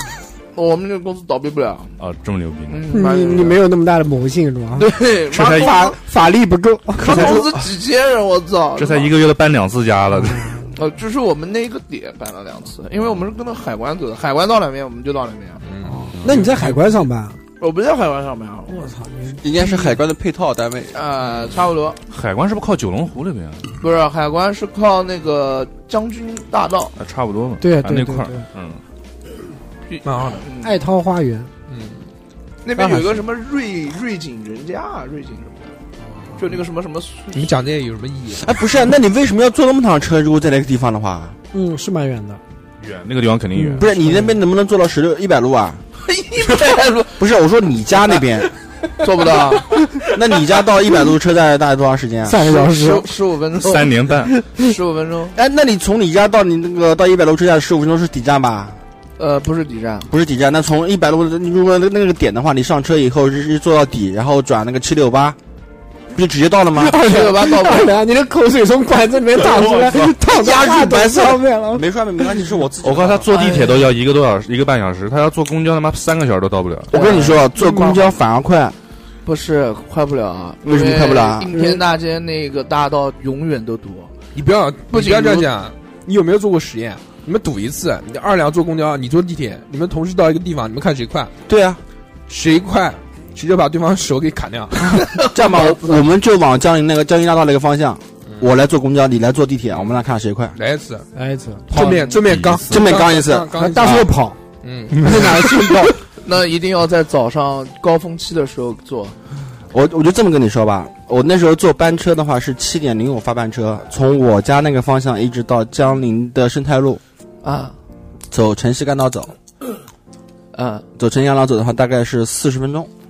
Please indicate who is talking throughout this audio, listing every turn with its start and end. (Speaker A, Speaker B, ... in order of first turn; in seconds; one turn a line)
Speaker A: 0.5-2.0
Speaker B: 2.0-2.9
Speaker A: 2.7-3.6
Speaker C: 2.9-4.9
Speaker A: 4.7-6.0
Speaker B: 5.3-5.9
Speaker C: 5.5-7.5
Speaker A: 7.0-9.1
Speaker B: 8.8-10.6
Speaker C: 10.2-10.7
Speaker A: 10.7-15.6
Speaker D: 15.6-16.7
Speaker C: 16.1-17.4
Speaker B: 16.2-16.5
Speaker A: 17.6-18.9
Speaker C: 18.7-19.4
Speaker E: 19.4-21.0
Speaker A: 20.9-22.0
Speaker B: 22.1-23.7
Speaker A: 23.8-26.9
Speaker B: 27.0-28.8
Speaker C: 27.6-28.4
Speaker A: 29.9-30.8
Speaker D: 30.0-30.4
Speaker C: 30.6-31.5
Speaker D: 31.7-32.1
Speaker A: 32.6-35.7
Speaker A: 36.4-37.5
Speaker D: 37.3-38.6
Speaker E: 38.4-41.4
Speaker C: 41.5-42.4
Speaker B: 42.8-44.0
Speaker C: 43.5-44.3
Speaker E: 43.8-45.8
Speaker A: 46.0-47.2
Speaker E: 47.2-48.5
Speaker A: 48.9-50.0
Speaker E: 50.0-52.5
Speaker C: 52.2-53.1
Speaker A: 52.4-55.4
Speaker B: 53.6-54.4
Speaker E: 55.4-58.8
Speaker A: 59.2-60.1
Speaker E: 60.1-65.4
Speaker E: 66.1-67.0
Speaker C: 66.7-72.5
Speaker A: 67.0-68.0
Speaker B: 69.4-70.2
Speaker E: 70.2-73.4
Speaker B: 72.8-77.0
Speaker A: 73.3-73.8
Speaker E: 76.9-78.8
Speaker A: 76.9-77.5
Speaker C: 77.5-78.1
Speaker A: 79.2-84.2
Speaker E: 80.6-81.5
Speaker C: 81.5-81.8
Speaker D: 84.3-91.3
Speaker A: 84.9-85.5
Speaker E: 91.5-91.8
Speaker D: 92.3-95.0
Speaker E: 95.2-100.6
Speaker D: 100.5-101.1
Speaker C: 101.1-102.0
Speaker D: 101.7-104.1
Speaker A: 101.8-102.1
Speaker B: 102.2-103.0
Speaker E: 102.7-104.1
Speaker C: 103.5-104.4
Speaker D: 104.6-105.2
Speaker C: 104.9-106.0
Speaker A: 106.2-109.2
Speaker E: 109.7-117.0
Speaker A: 117.4-117.8
Speaker E: 118.3-119.3
Speaker A: 120.5-120.9
Speaker E: 121.0-122.9